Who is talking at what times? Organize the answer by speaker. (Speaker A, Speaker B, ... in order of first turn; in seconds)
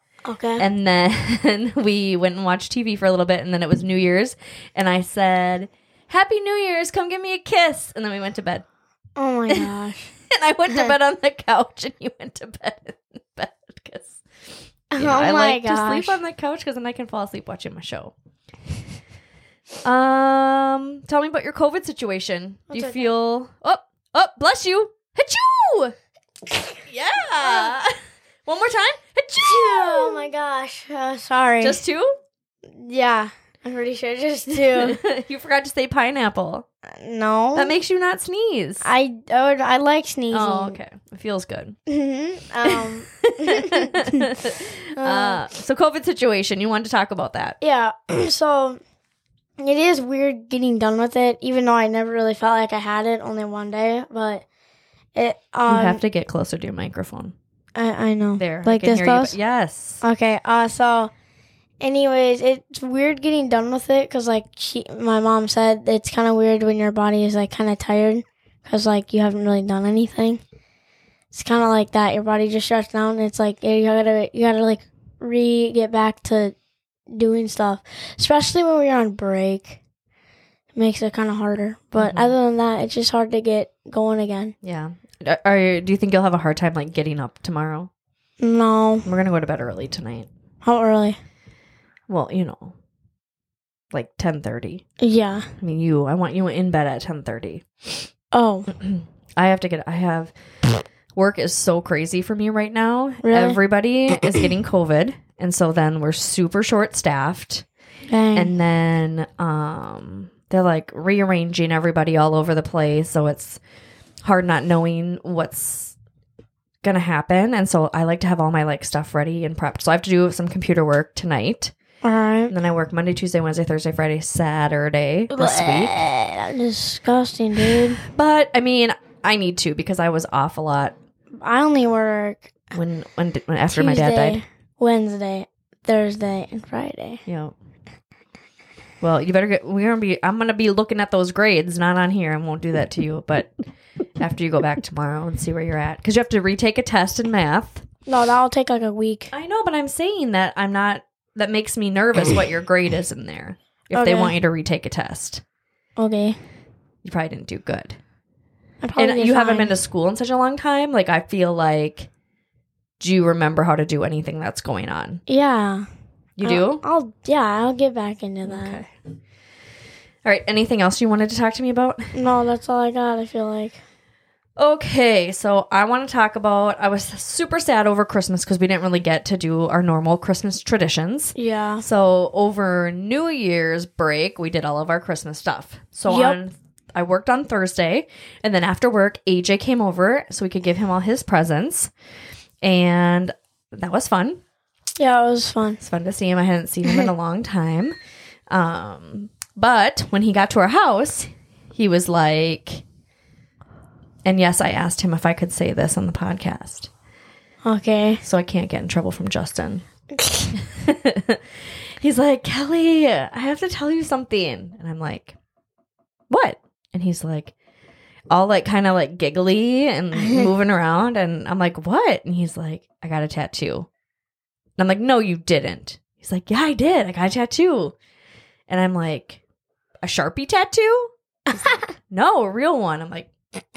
Speaker A: 0.2-0.7, 9.2-10.1, 14.9-16.2, 22.7-23.1, 27.4-27.7, 29.4-31.8, 32.7-35.0, 36.9-37.7, 38.8-40.8, 41.9-44.3, 45.0-45.4, 47.6-48.8, 49.6-54.5, 55.1-56.0, 57.8-59.4, 60.0-61.1, 61.8-70.4, 71.3-76.5, 77.1-79.8, 80.7-84.5, 88.4-89.1, 90.6-91.2, 95.0-95.5, 98.3-98.7, 103.2-103.6, 108.1-108.5, 122.0-122.5, 125.3-128.0, 131.4-132.5, 133.7-137.2, 148.1-149.3, 153.9-154.3, 156.0-156.4, 158.8-159.7, 165.3-165.9, 166.4-168.8, 172.1-173.8, 181.4-181.8, 186.1-186.4, 195.0-195.8, 207.6-208.2, 210.2-210.5, 220.2-220.5
Speaker B: 0.6-8.7, 10.3-14.2, 15.0-18.1, 19.8-25.9, 26.9-30.3, 31.6-32.1, 34.6-36.7, 37.5-38.9, 40.3-41.8, 42.7-47.6, 55.7-57.4, 58.4-60.0, 82.0-82.3, 84.6-87.9, 89.0-90.3, 92.1-92.8, 93.9-94.8, 95.6-98.1, 98.7-100.3, 101.2-107.7, 108.3-113.6, 114.2-116.0, 116.8-121.7, 122.5-126.0, 128.0-130.9, 132.7-134.4, 137.3-137.5, 139.0-143.5, 144.2-147.8, 149.3-155.4, 157.0-158.0, 159.0-162.1, 163.0-165.2, 166.4-166.8, 168.4-168.9, 170.2-172.1, 174.6-191.9, 192.6-194.4, 195.8-197.9, 198.5-202.8, 204.2-206.9, 208.2-209.8, 210.6-211.4, 212.0-215.4, 216.3-217.5, 218.3-223.9, 224.8-227.9, 228.7-229.4, 230.0-233.3